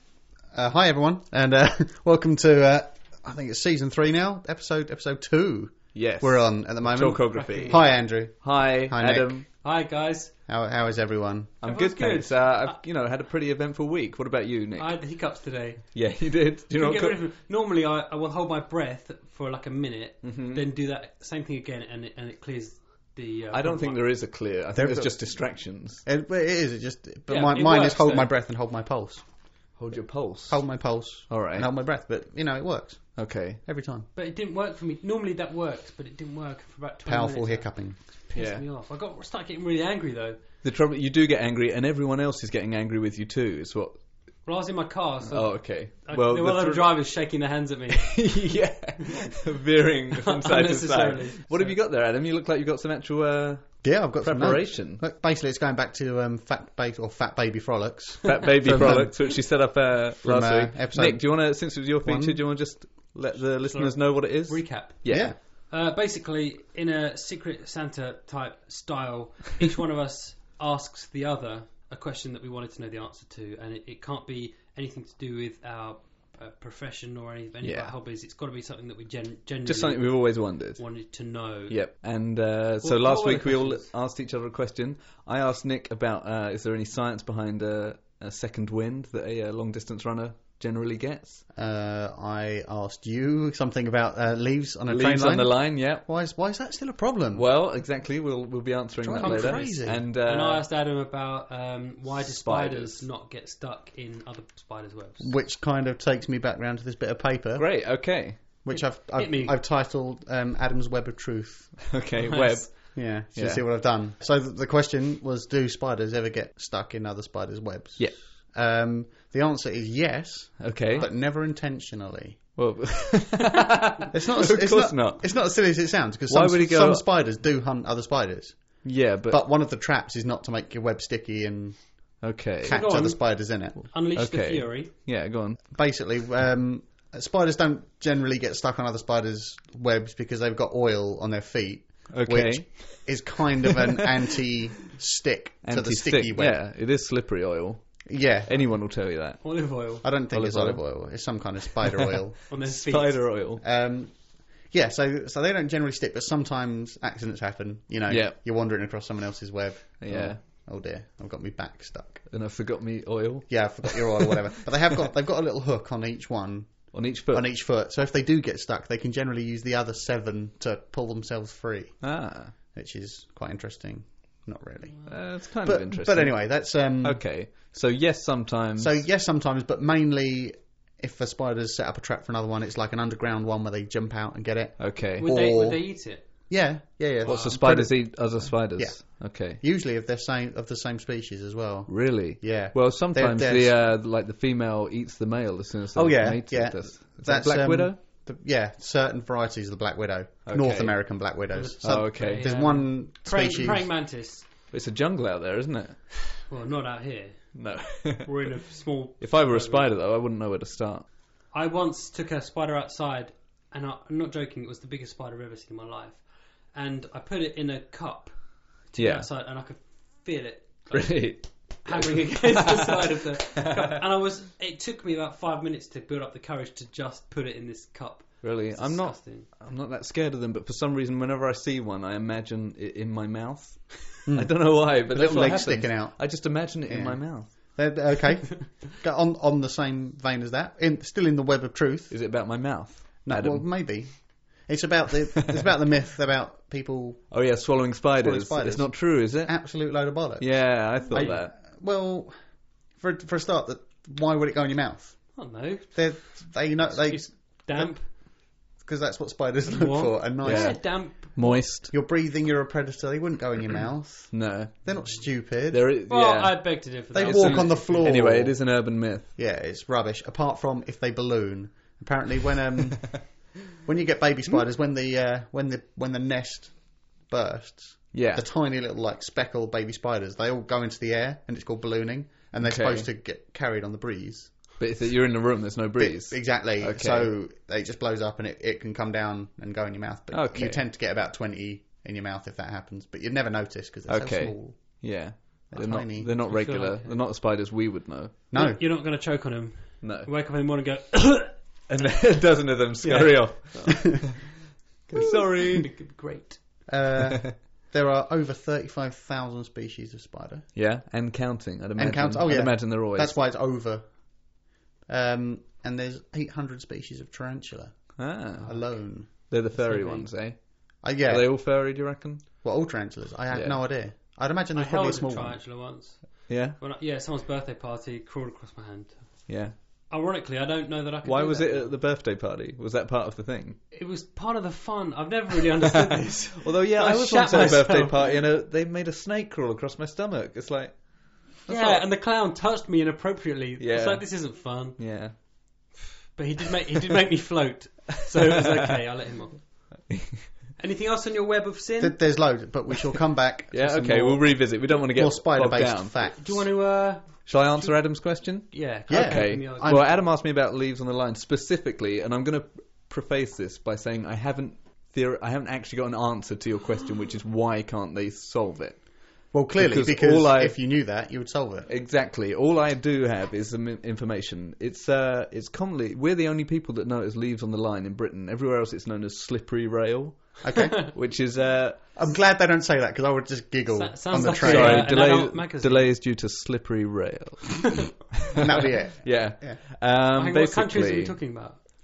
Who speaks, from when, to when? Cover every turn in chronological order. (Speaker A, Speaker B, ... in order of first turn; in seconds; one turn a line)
Speaker A: 0.5-9.5
Speaker B: 5.9-9.4
Speaker C: 7.3-7.8
Speaker C: 9.6-10.3
Speaker A: 10.5-11.5
Speaker B: 11.6-15.0
Speaker C: 11.6-12.8
Speaker C: 14.8-24.0
Speaker B: 15.9-17.2
Speaker B: 20.2-20.6
Speaker B: 23.5-26.0
Speaker A: 24.7-29.2
Speaker C: 27.3-28.3
Speaker B: 29.7-31.7
Speaker A: 30.5-34.1
Speaker B: 33.1-33.6
Speaker C: 34.1-40.4
Speaker A: 37.0-38.0
Speaker B: 38.3-38.6
Speaker B: 40.6-44.0
Speaker C: 44.4-48.4
Speaker B: 45.3-47.1
Speaker B: 47.9-55.0
Speaker C: 50.2-51.8
Speaker A: 53.8-59.6
Speaker B: 58.2-65.3
Speaker A: 60.2-62.4
Speaker C: 63.7-81.9
Speaker A: 65.1-65.4
Speaker B: 77.6-77.9
Speaker B: 79.7-80.8
Speaker B: 81.7-91.4
Speaker C: 82.8-83.9
Speaker A: 91.5-97.5
Speaker B: 94.9-96.0
Speaker B: 97.3-100.6
Speaker A: 99.0-100.0
Speaker C: 99.2-105.3
Speaker B: 102.2-103.1
Speaker A: 105.2-112.0
Speaker B: 107.5-108.4
Speaker C: 108.7-109.6
Speaker B: 111.9-113.8
Speaker C: 112.2-112.7
Speaker A: 112.9-122.5
Speaker B: 120.6-121.1
Speaker B: 122.5-125.7
Speaker A: 124.1-133.8
Speaker B: 126.3-127.1
Speaker B: 128.8-129.4
Speaker B: 132.2-133.0
Speaker C: 132.7-134.9
Speaker B: 133.8-135.7
Speaker A: 135.7-146.6
Speaker B: 142.1-143.8
Speaker B: 145.6-149.6
Speaker A: 148.0-148.8
Speaker C: 149.4-150.1
Speaker A: 150.0-152.4
Speaker B: 150.3-151.4
Speaker B: 152.0-153.6
Speaker C: 152.5-153.2
Speaker A: 153.6-162.5
Speaker B: 158.1-158.9
Speaker B: 160.0-160.4
Speaker B: 162.3-164.4
Speaker A: 163.5-177.2
Speaker B: 166.9-167.5
Speaker B: 172.0-172.5
Speaker B: 175.1-179.0
Speaker A: 178.8-193.8
Speaker B: 184.8-185.3
Speaker C: 185.2-186.2
Speaker B: 187.2-189.6
Speaker B: 191.9-198.0
Speaker A: 195.9-203.9
Speaker B: 200.4-202.8
Speaker C: 201.5-204.4
Speaker B: 204.7-206.4
Speaker C: 206.5-209.9
Speaker B: 207.5-208.6
Speaker B: 209.2-211.1
Speaker C: 211.5-229.5
Speaker B: 218.9-219.3
Speaker B: 220.9-223.9
Speaker B: 228.4-237.7
Speaker A: 234.2-242.4
Speaker C: 235.3-235.6
Speaker B: 242.1-244.1
Speaker A: 243.2-247.5
Speaker B: 247.3-251.6
Speaker A: 248.2-265.9
Speaker C: 255.3-258.1
Speaker C: 259.7-261.6
Speaker B: 260.4-261.9
Speaker B: 264.3-269.3
Speaker C: 266.1-268.1
Speaker A: 267.1-284.8
Speaker B: 278.1-278.4
Speaker B: 282.6-283.1
Speaker B: 284.8-287.3
Speaker A: 286.0-296.4
Speaker B: 290.3-290.8
Speaker B: 294.1-298.4
Speaker C: 296.4-297.2
Speaker A: 298.5-298.8
Speaker C: 298.5-301.6
Speaker B: 300.0-300.3
Speaker B: 301.9-304.2
Speaker C: 303.0-304.4
Speaker A: 305.1-305.4
Speaker B: 305.1-305.9
Speaker C: 305.7-306.6
Speaker A: 306.9-310.7
Speaker B: 310.7-313.4
Speaker A: 311.9-319.6
Speaker B: 318.2-322.6
Speaker C: 318.6-318.9
Speaker C: 319.5-320.2
Speaker A: 321.0-321.9
Speaker A: 322.6-325.6
Speaker B: 323.5-323.8
Speaker C: 324.7-331.9
Speaker B: 326.5-326.8
Speaker B: 329.5-329.7
Speaker B: 331.2-333.8
Speaker C: 333.9-338.3
Speaker B: 336.6-342.1
Speaker C: 341.6-345.4
Speaker B: 343.8-345.8
Speaker C: 346.3-350.1
Speaker C: 350.8-352.2
Speaker A: 352.0-356.7
Speaker B: 353.7-356.4
Speaker C: 356.3-359.9
Speaker B: 357.4-370.8
Speaker A: 359.1-360.2
Speaker A: 369.5-371.9
Speaker B: 371.9-382.0
Speaker A: 380.6-381.1
Speaker A: 382.1-385.1
Speaker C: 383.9-386.1
Speaker B: 384.4-391.4
Speaker A: 388.5-389.8
Speaker C: 390.3-391.8